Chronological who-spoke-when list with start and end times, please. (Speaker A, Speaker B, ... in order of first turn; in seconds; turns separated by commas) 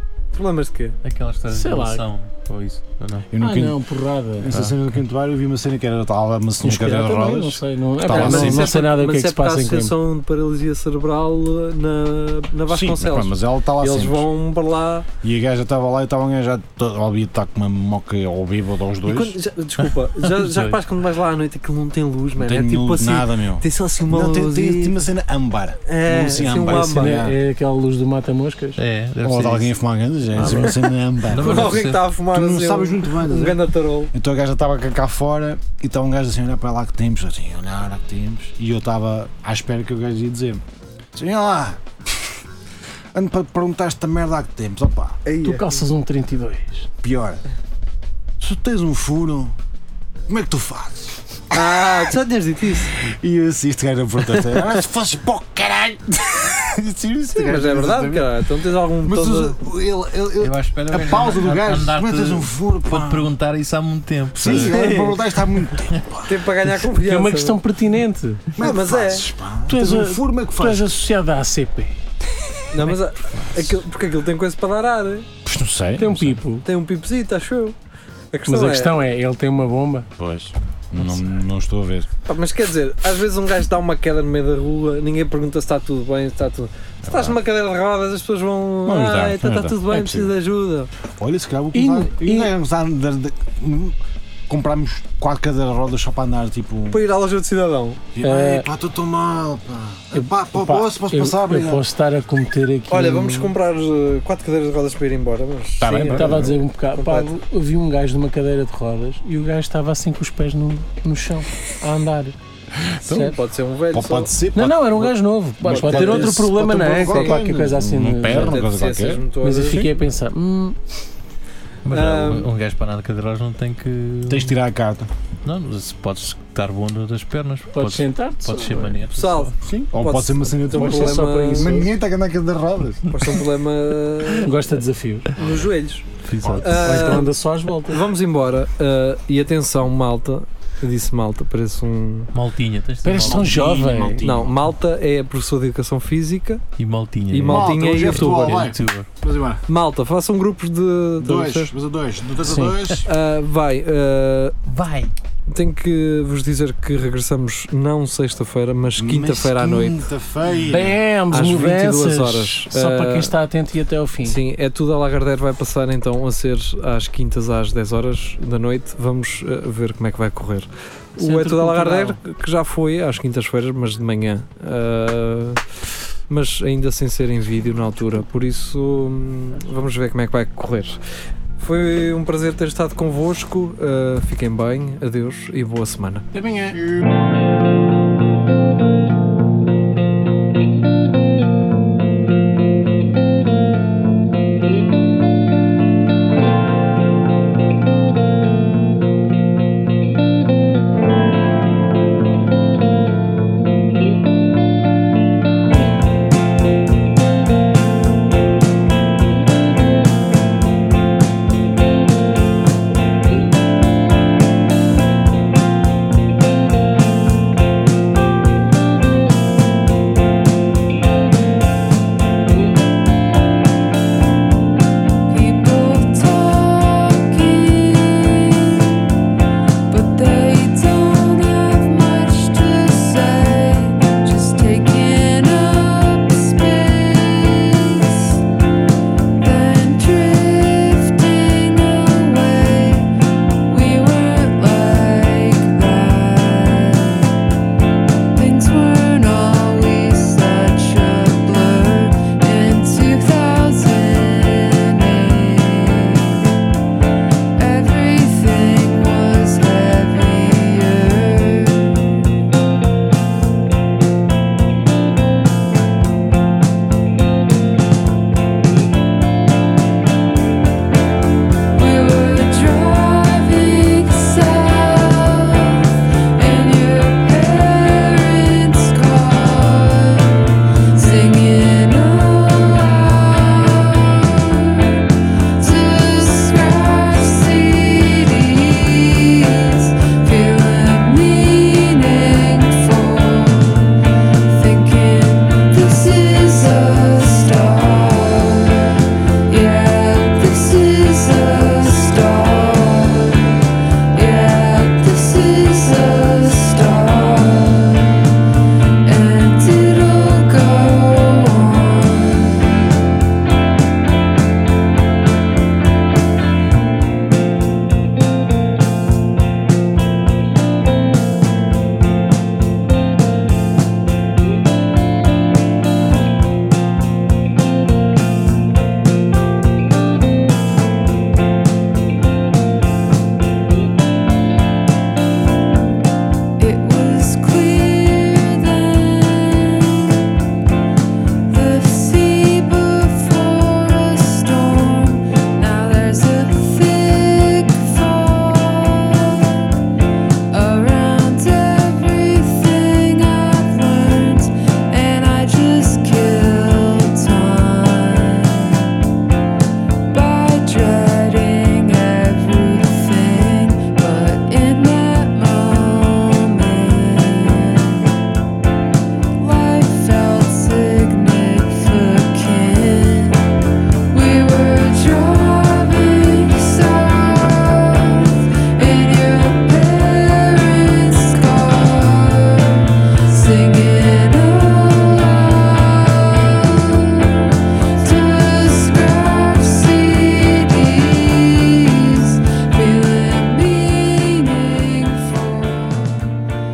Speaker A: 0.3-1.0, Speaker B: 1.0-3.3, Speaker C: 1.5-2.0, Speaker D: 3.3-3.8, Speaker C: 3.4-4.6, Speaker D: 4.4-8.8, Speaker C: 6.6-9.9, Speaker A: 8.1-15.1, Speaker D: 12.7-14.3, Speaker D: 15.2-19.4, Speaker A: 19.1-25.0, Speaker B: 19.8-20.8, Speaker D: 22.4-27.4, Speaker A: 25.9-27.2, Speaker C: 26.7-28.8, Speaker B: 28.8-29.7, Speaker D: 29.2-40.6, Speaker C: 30.4-30.8, Speaker A: 30.4-30.9, Speaker B: 31.3-32.0, Speaker A: 31.4-34.1, Speaker D: 41.1-42.3, Speaker D: 43.1-45.2, Speaker A: 45.2-45.8, Speaker C: 45.4-46.9, Speaker D: 47.0-47.4, Speaker D: 48.4-49.6, Speaker D: 50.3-52.1, Speaker A: 51.5-53.0, Speaker D: 53.0-58.3, Speaker A: 54.4-54.7, Speaker A: 57.3-59.6, Speaker D: 59.0-63.3, Speaker B: 60.4-64.8, Speaker D: 64.3-66.4, Speaker A: 64.4-65.2, Speaker A: 66.3-67.6, Speaker C: 67.0-68.5, Speaker D: 68.5-70.9, Speaker A: 68.6-69.3, Speaker C: 69.7-72.0, Speaker A: 72.7-75.3, Speaker D: 73.3-73.8, Speaker D: 75.4-76.4, Speaker C: 76.0-76.7, Speaker A: 76.7-77.8, Speaker A: 78.3-79.0, Speaker C: 78.5-80.1, Speaker D: 80.2-82.1, Speaker A: 82.3-90.9, Speaker D: 87.0-87.4, Speaker D: 88.8-90.4, Speaker D: 91.2-94.0, Speaker C: 91.7-92.5, Speaker D: 94.5-97.0, Speaker A: 96.9-98.0, Speaker D: 98.1-101.8, Speaker C: 98.2-98.7, Speaker C: 100.1-103.5, Speaker A: 102.9-107.3, Speaker D: 105.8-106.5, Speaker C: 105.8-112.4, Speaker D: 112.8-113.4, Speaker C: 113.1-113.3, Speaker A: 113.2-114.3, Speaker D: 113.9-119.9, Speaker C: 114.5-118.7, Speaker A: 115.7-117.4, Speaker A: 118.3-119.9, Speaker C: 119.4-120.8, Speaker B: 121.8-124.6, Speaker A: 121.9-122.5, Speaker D: 124.3-125.1, Speaker B: 125.4-129.5, Speaker C: 127.7-129.0, Speaker A: 129.1-131.8, Speaker D: 129.6-133.2, Speaker C: 130.7-131.9, Speaker A: 133.1-134.5, Speaker C: 134.4-135.3, Speaker A: 135.4-136.1, Speaker D: 135.4-135.7, Speaker B: 136.2-137.0, Speaker D: 136.4-137.2, Speaker A: 136.6-137.3, Speaker C: 136.7-138.0, Speaker A: 137.9-142.3, Speaker B: 142.3-143.6, Speaker C: 143.0-144.3, Speaker D: 143.2-144.7, Speaker A: 144.2-146.6, Speaker B: 146.8-149.1, Speaker A: 147.3-148.7, Speaker D: 147.4-149.6, Speaker A: 149.7-151.7, Speaker D: 151.2-153.1, Speaker C: 152.4-152.8, Speaker A: 153.1-154.6, Speaker B: 154.7-155.1, Speaker A: 155.5-160.0, Speaker D: 159.0-161.0, Speaker C: 160.5-164.4, Speaker A: 161.3-163.3, Speaker A: 164.2-175.6, Speaker C: 171.2-172.2, Speaker A: 176.3-181.0, Speaker A: 181.6-186.2, Speaker C: 186.3-186.8, Speaker E: 225.3-229.0, Speaker E: 229.9-238.4, Speaker E: 239.4-243.1, Speaker E: 243.7-247.3, Speaker E: 248.3-256.4, Speaker E: 257.6-262.2, Speaker E: 271.8-308.3, Speaker E: 309.0-312.7, Speaker E: 336.6-340.1, Speaker E: 341.5-349.7, Speaker E: 350.5-358.9, Speaker E: 360.1-368.1, Speaker E: 369.4-373.4, Speaker E: 374.1-396.4